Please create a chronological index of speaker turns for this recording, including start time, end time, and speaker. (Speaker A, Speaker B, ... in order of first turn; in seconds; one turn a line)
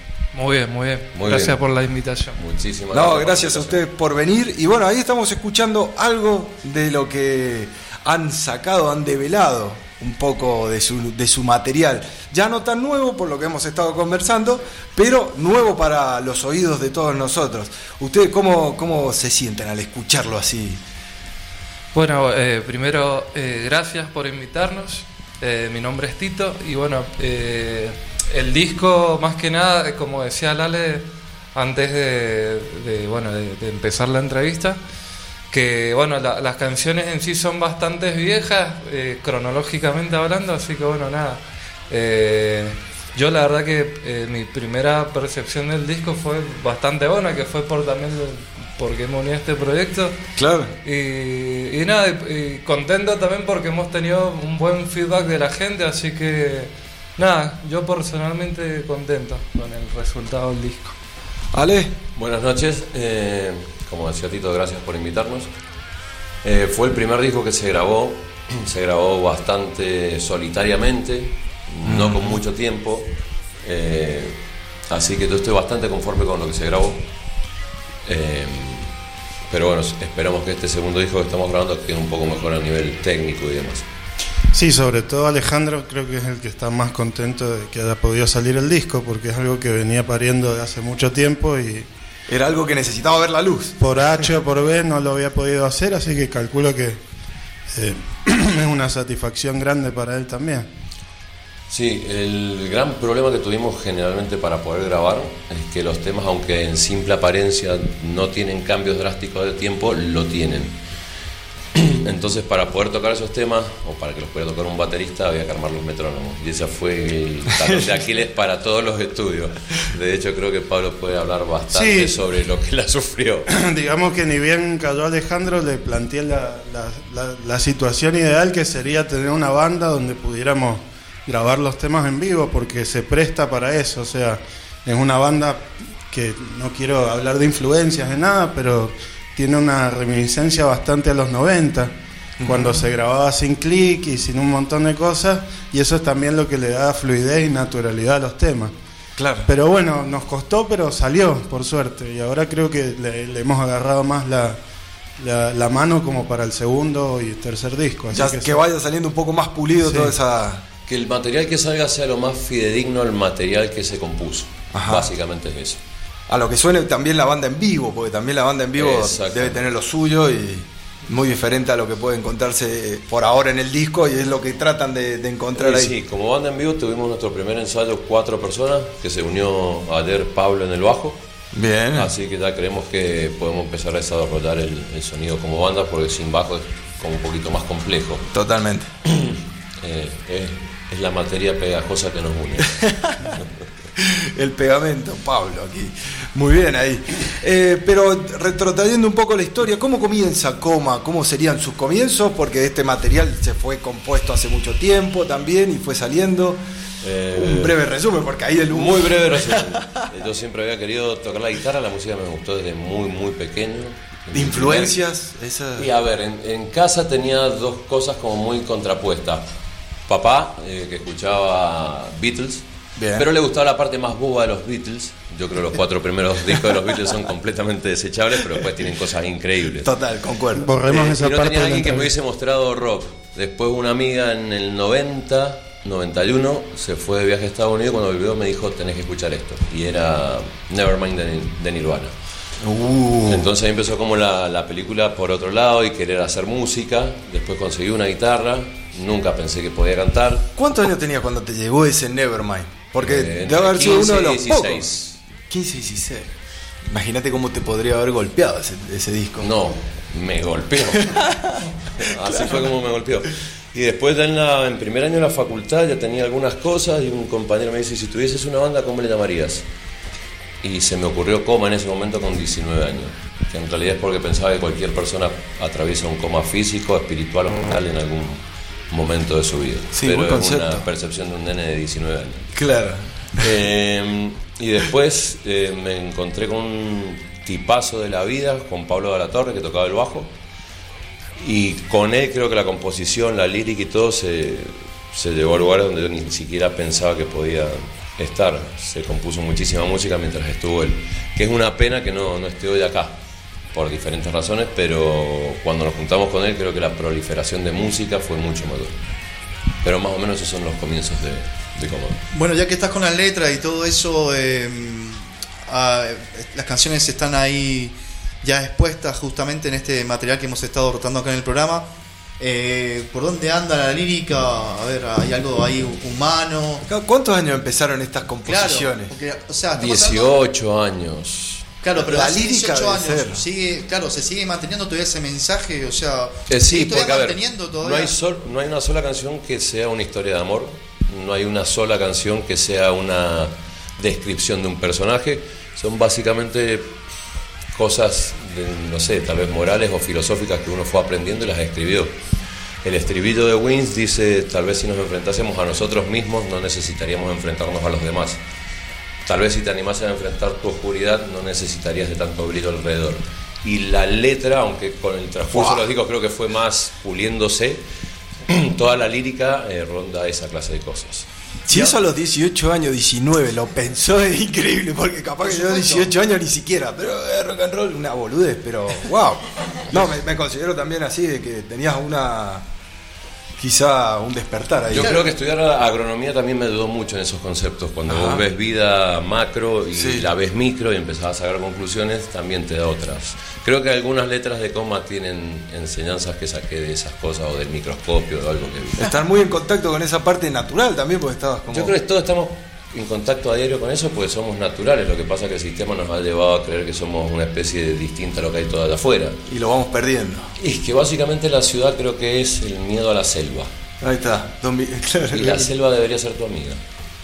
Speaker A: 0.3-2.4
Speaker B: 1.1-1.6
Speaker B: 2.4-3.8
Speaker C: 2.9-20.8
Speaker A: 21.9-34.8
Speaker A: 35.5-50.2
Speaker C: 50.4-50.7
Speaker A: 50.8-60.9
Speaker C: 61.5-62.0
Speaker B: 62.1-65.5
Speaker B: 66.4-73.1
Speaker C: 71.8-72.4
Speaker B: 73.6-74.4
Speaker B: 74.9-77.0
Speaker B: 78.0-78.9
Speaker B: 79.5-83.8
Speaker D: 84.5-91.9
Speaker C: 92.3-94.2
Speaker D: 93.8-97.0
Speaker D: 97.7-100.7
Speaker B: 101.7-110.8
Speaker B: 111.8-123.5
Speaker C: 117.6-117.8
Speaker D: 121.7-122.2
Speaker D: 123.5-141.9
Speaker C: 142.4-142.8
Speaker D: 142.4-148.7
Speaker C: 149.2-149.5
Speaker D: 149.5-154.6
Speaker D: 155.2-158.6
Speaker C: 158.1-160.6
Speaker D: 159.8-160.2
Speaker B: 160.9-165.8
Speaker C: 164.7-165.1
Speaker C: 166.3-175.9
Speaker B: 168.8-169.6
Speaker B: 175.6-181.2
Speaker C: 181.5-182.1
Speaker B: 181.9-188.3
Speaker C: 188.3-188.9
Speaker B: 189.1-193.5
Speaker C: 192.8-193.3
Speaker C: 194.0-206.6
Speaker B: 207.0-207.8
Speaker C: 207.3-210.0
Speaker B: 208.7-215.0
Speaker C: 214.3-215.9
Speaker B: 215.8-219.4
Speaker B: 220.1-222.6
Speaker C: 223.0-223.3
Speaker B: 223.2-229.9
Speaker C: 229.8-230.7
Speaker D: 230.6-232.1
Speaker B: 230.9-242.1
Speaker C: 242.6-243.5
Speaker B: 243.3-250.5
Speaker C: 250.6-254.9
Speaker B: 253.0-255.2
Speaker C: 255.4-256.3
Speaker C: 256.9-259.5
Speaker B: 259.4-261.3
Speaker C: 261.1-262.6
Speaker B: 262.0-269.6
Speaker B: 270.6-282.6
Speaker C: 279.9-280.8
Speaker C: 282.6-283.4
Speaker B: 283.4-290.3
Speaker B: 291.4-303.2
Speaker B: 303.7-309.0
Speaker B: 309.8-312.2
Speaker E: 312.3-321.9
Speaker E: 322.4-326.8
Speaker C: 326.9-329.1
Speaker E: 328.5-330.4
Speaker B: 329.7-331.7
Speaker E: 331.8-338.1
Speaker C: 332.0-333.4
Speaker B: 336.5-346.9
Speaker B: 347.7-352.1
Speaker B: 352.8-358.4
Speaker B: 359.2-367.8
Speaker C: 365.5-365.9
Speaker B: 368.5-371.3
Speaker C: 371.7-382.6
Speaker E: 375.4-376.1
Speaker C: 383.6-385.2
Speaker B: 384.9-399.0
Speaker E: 385.0-385.3
Speaker C: 388.1-388.4
Speaker C: 390.0-390.3
Speaker C: 399.0-401.9
Speaker B: 401.7-409.4
Speaker C: 409.5-410.5
Speaker B: 410.6-413.7
Speaker C: 414.0-415.7
Speaker B: 415.3-416.8